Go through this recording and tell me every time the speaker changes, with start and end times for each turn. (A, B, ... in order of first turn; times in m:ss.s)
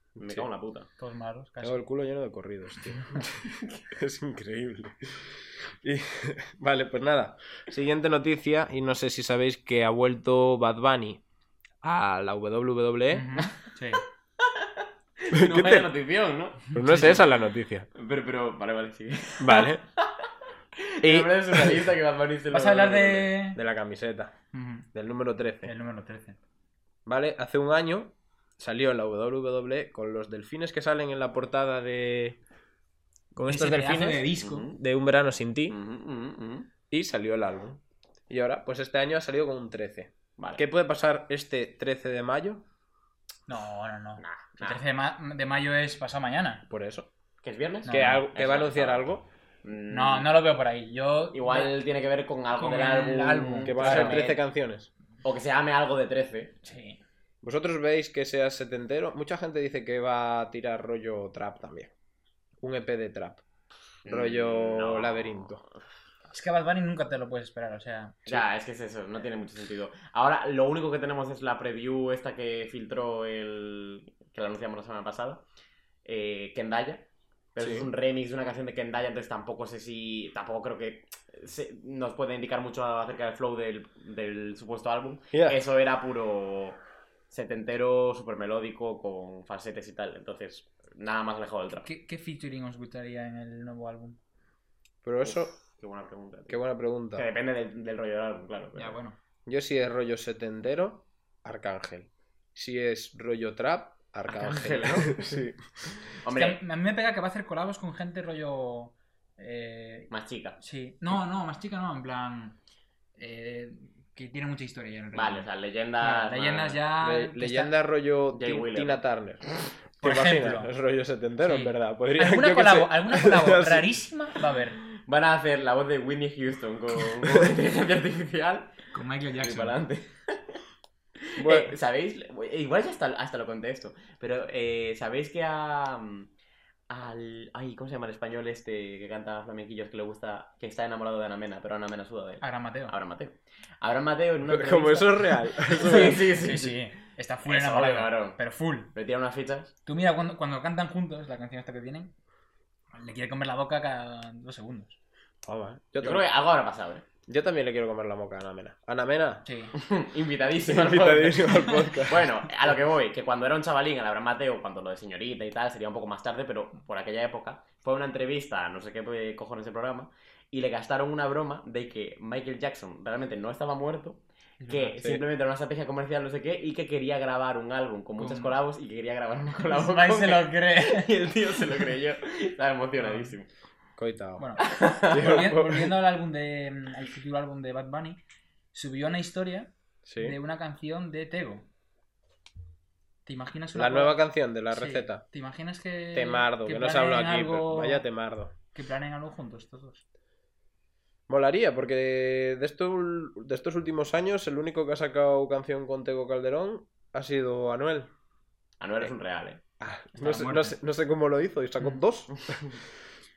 0:00.1-0:00.5 A
0:00.2-0:00.9 B
0:01.0-0:01.8 C
0:01.6-0:11.2 A
0:11.8-0:13.3 A
0:13.1-0:14.0 C
0:14.4-0:16.7 B
0:15.3-0:15.9 A
0:16.7-0:17.9 A
0:16.7-0:17.2 C
0:17.9-0:20.3 B
0:19.4-0:19.8 A
0:20.8-0:23.3 B
0:21.0-0:21.9 A
0:22.5-0:23.6 C
0:23.5-0:24.4 A
0:24.5-0:24.9 C
0:24.9-0:25.7 A
0:25.6-0:26.4 C
0:27.0-0:32.4 A
0:33.3-0:35.8 A
0:33.4-0:34.7 C
0:34.4-0:34.8 B
0:35.7-0:36.7 B
0:36.9-0:42.6 A
0:40.4-0:40.6 B
0:43.5-0:46.6 C
0:44.2-0:44.8 B
0:46.7-0:47.1 A
0:47.4-0:50.3 B
0:47.9-0:48.2 C
0:47.9-0:49.2 A
0:49.9-0:51.8 C
0:51.3-0:54.4 B
0:52.6-0:54.2 C
0:53.6-0:54.9 A
0:55.2-0:56.6 B
0:56.6-0:57.0 C
0:57.4-1:01.9 A
1:02.6-1:03.4 A
1:04.0-1:05.6 B
1:04.0-1:05.6 A
1:06.3-1:08.2 C
1:08.2-1:15.4 B
1:16.0-1:26.8 B
1:17.6-1:17.9 A
1:25.3-1:25.6 A
1:27.3-1:31.9 B
1:31.8-1:34.2 C
1:35.0-1:35.5 A
1:35.2-1:39.0 B
1:36.5-1:37.3 A
1:38.8-1:39.2 C
1:39.4-1:45.6 A
1:44.3-1:45.3 B
1:46.2-1:46.6 B
1:46.3-1:52.6 C
1:50.1-1:50.6 B
1:53.2-1:55.5 C
1:55.1-1:56.8 B
1:56.0-1:57.7 C
1:57.0-1:59.5 A
1:58.3-1:59.0 B
2:00.0-2:03.9 A
2:00.0-2:00.7 C
2:01.4-2:04.8 C
2:05.0-2:08.8 B
2:08.9-2:09.8 C
2:09.4-2:10.6 B
2:11.3-2:16.3 B
2:11.4-2:11.8 A
2:16.9-2:26.8 B
2:22.4-2:22.9 C
2:24.4-2:26.2 A
2:25.8-2:28.9 C
2:27.4-2:28.4 B
2:28.9-2:29.7 B
2:29.8-2:32.1 C
2:32.9-2:35.0 C
2:35.4-2:36.2 A
2:36.0-2:37.0 B
2:37.3-2:39.4 A
2:39.4-2:39.7 C
2:39.8-3:03.5 B
2:40.6-2:42.2 A
2:54.6-2:55.1 C
2:58.2-2:58.6 C
2:59.6-3:01.1 C
3:03.0-3:03.3 C
3:04.0-3:04.5 A
3:04.4-3:08.2 C
3:04.7-3:05.4 B
3:05.1-3:05.9 A
3:08.7-3:11.6 C
3:10.0-3:10.4 A
3:13.2-3:18.1 C
3:13.7-3:15.2 A
3:16.1-3:18.5 A
3:18.7-3:20.0 C
3:21.3-3:28.1 A
3:28.8-3:29.6 B
3:29.8-3:32.6 A
3:30.2-3:30.8 C